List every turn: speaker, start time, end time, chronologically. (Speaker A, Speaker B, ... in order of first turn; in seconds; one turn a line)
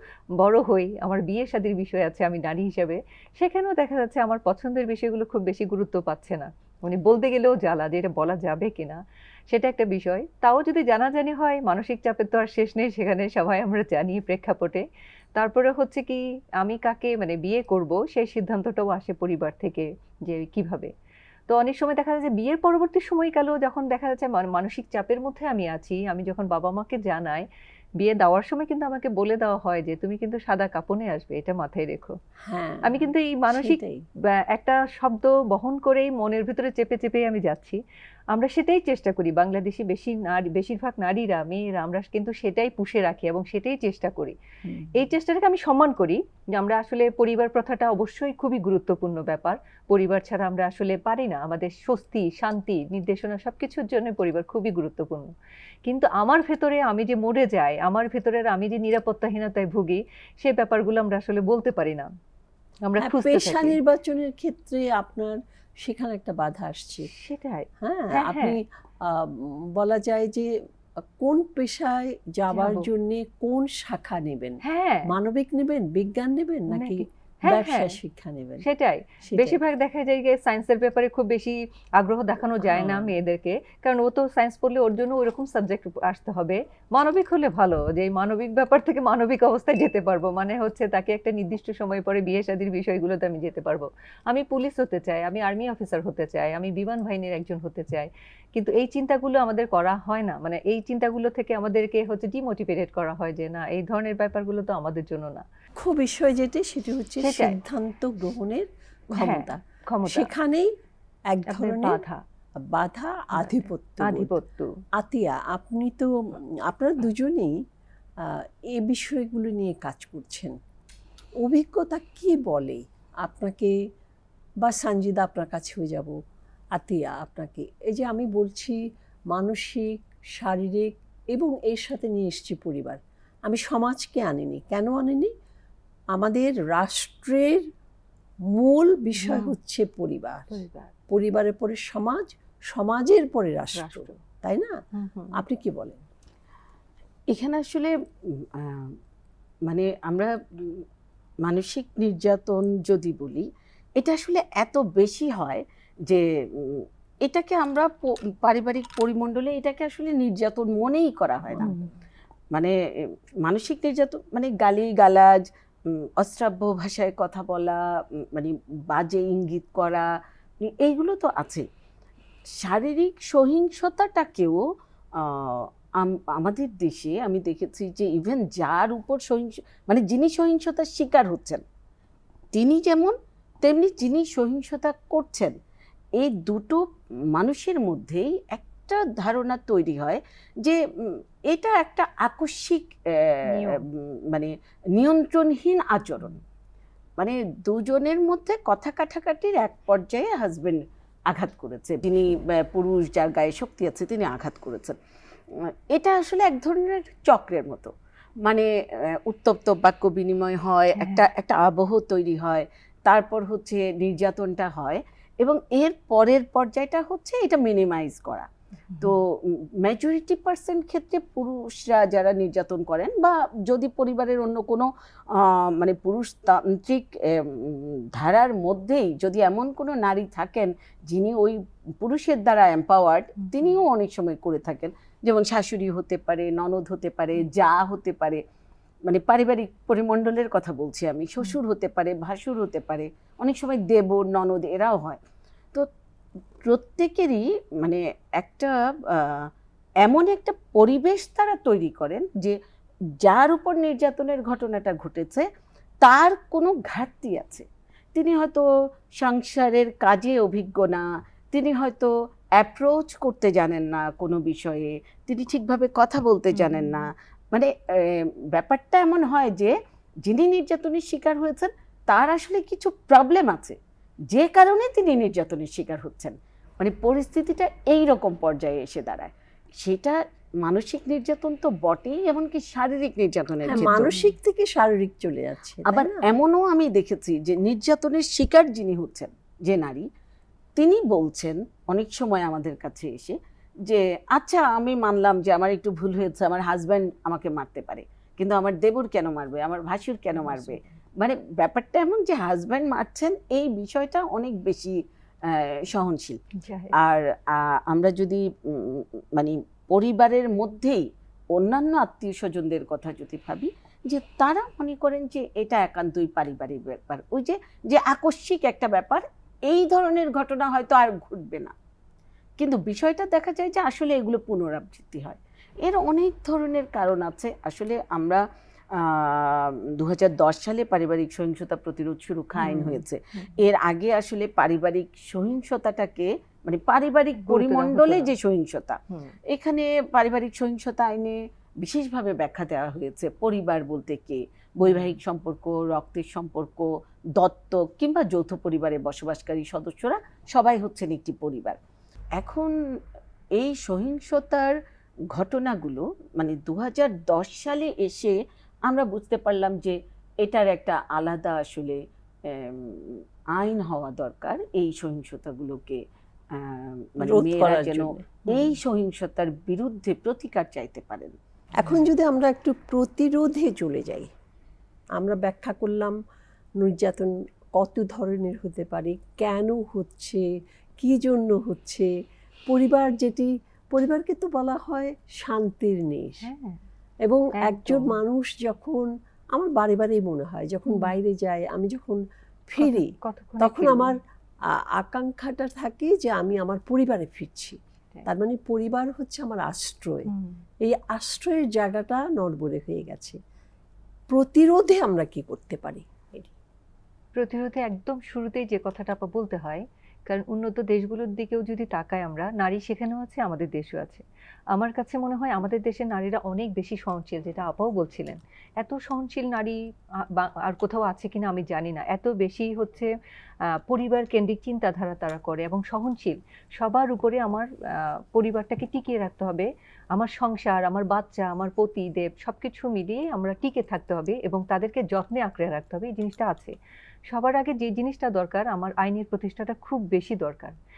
Speaker A: 0.4-14.8
Speaker A: 15.4-20.9
Speaker A: 21.5-27.5
Speaker A: 28.0-32.2
Speaker B: 32.4-34.0
Speaker A: 32.8-37.8
Speaker A: 38.3-44.4
Speaker B: 44.6-44.9
Speaker A: 44.9-55.3
Speaker A: 55.9-62.1
Speaker A: 62.9-63.8
Speaker B: 63.0-67.1
Speaker A: 67.1-68.6
Speaker B: 67.8-78.6
Speaker A: 72.5-72.9
Speaker A: 74.6-75.1
Speaker A: 76.7-78.0
Speaker A: 78.6-105.5
Speaker B: 79.2-79.6
Speaker B: 82.6-83.1
Speaker B: 105.8-110.7
Speaker A: 107.2-107.6
Speaker A: 109.2-110.3
Speaker B: 111.3-112.0
Speaker A: 111.5-112.2
Speaker B: 112.6-114.4
Speaker A: 113.3-114.8
Speaker B: 115.0-117.6
Speaker B: 118.2-120.6
Speaker B: 121.4-123.8
Speaker B: 124.6-126.2
Speaker B: 126.8-128.8
Speaker B: 129.3-135.3
Speaker B: 136.1-137.7
Speaker B: 138.5-140.6
Speaker A: 139.2-139.5
Speaker A: 140.5-140.9
Speaker B: 141.1-146.0
Speaker A: 143.8-144.2
Speaker A: 144.9-145.4
Speaker C: 147.3-149.0
Speaker C: 149.7-150.8
Speaker C: 151.4-161.8
Speaker A: 161.6-161.9
Speaker C: 163.4-170.1
Speaker C: 170.6-171.7
Speaker C: 172.6-174.7
Speaker C: 175.2-181.6
Speaker C: 182.5-185.5
Speaker C: 186.2-196.4
Speaker A: 193.5-193.8
Speaker C: 197.2-205.0
Speaker C: 205.5-207.9
Speaker C: 208.4-218.5
Speaker A: 211.0-211.2
Speaker C: 219.0-238.4
Speaker C: 239.1-245.2
Speaker C: 246.6-249.5
Speaker C: 250.0-252.6
Speaker C: 253.2-255.5
Speaker C: 256.0-258.6
Speaker C: 259.2-273.8
Speaker A: 266.5-267.1
Speaker C: 274.3-284.1
Speaker B: 283.7-286.3
Speaker A: 283.7-284.3
Speaker C: 285.9-290.1
Speaker C: 290.8-306.4
Speaker A: 300.5-300.8
Speaker A: 306.6-307.0
Speaker C: 306.9-321.7
Speaker C: 322.6-351.8
Speaker A: 332.6-333.5
Speaker B: 332.7-333.0
Speaker A: 337.4-338.3
Speaker A: 344.9-345.2
Speaker C: 352.4-352.8
Speaker C: 353.6-354.8
Speaker C: 355.3-366.0
Speaker C: 366.5-371.3
Speaker B: 367.2-368.2
Speaker A: 368.5-368.8
Speaker B: 371.8-374.3
Speaker B: 375.2-376.2
Speaker B: 376.8-380.5
Speaker B: 381.0-382.1
Speaker B: 382.7-386.5
Speaker A: 386.4-386.8
Speaker B: 387.2-394.2
Speaker A: 387.6-388.2
Speaker A: 390.9-391.2
Speaker A: 392.8-394.2
Speaker B: 394.8-400.3
Speaker A: 400.3-400.6
Speaker B: 400.8-403.4
Speaker B: 404.3-406.5
Speaker A: 407.4-419.8
Speaker A: 420.3-423.1
Speaker A: 423.7-436.8
Speaker A: 437.3-440.8